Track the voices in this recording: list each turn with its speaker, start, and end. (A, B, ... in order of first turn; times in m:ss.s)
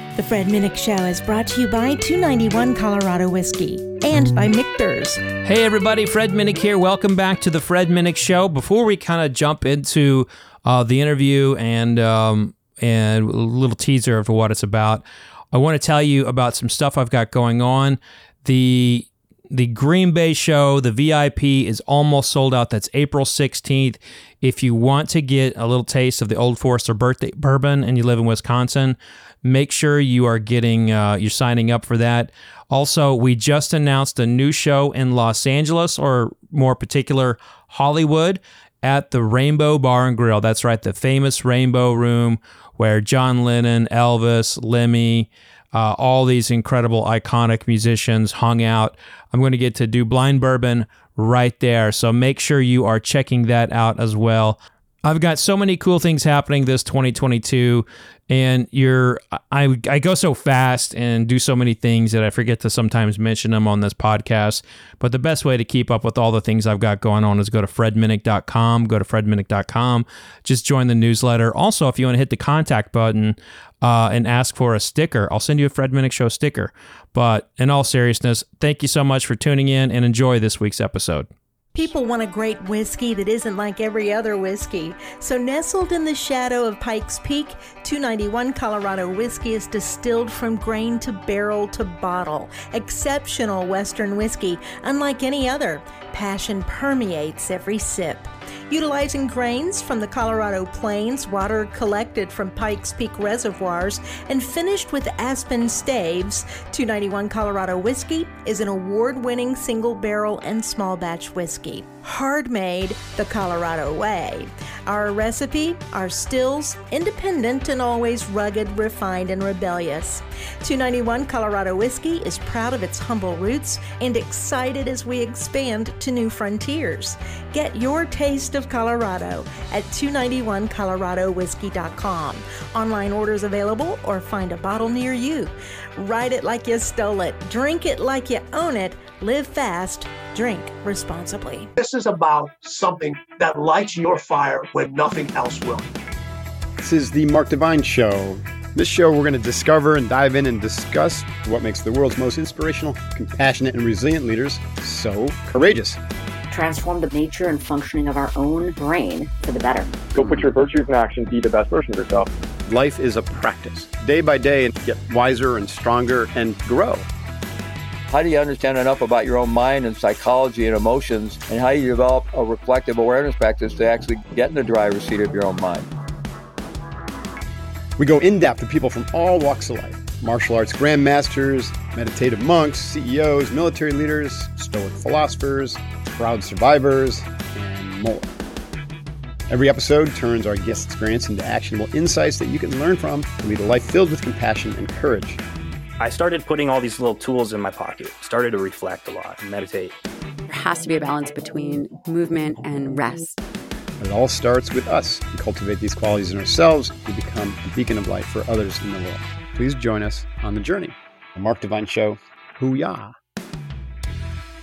0:00.2-0:05.2 A
0:05.4-1:21.3 B
1:21.7-2:21.7 A
2:21.8-2:25.9 C
2:26.8-2:36.0 D
2:36.5-2:40.1 E
2:40.1-2:42.3 F
2:42.6-2:47.0 D
2:48.1-2:55.9 G
2:58.0-3:08.3 D
3:09.5-3:15.4 D
3:16.0-3:19.9 H
3:20.5-3:23.4 I
3:24.0-3:33.1 D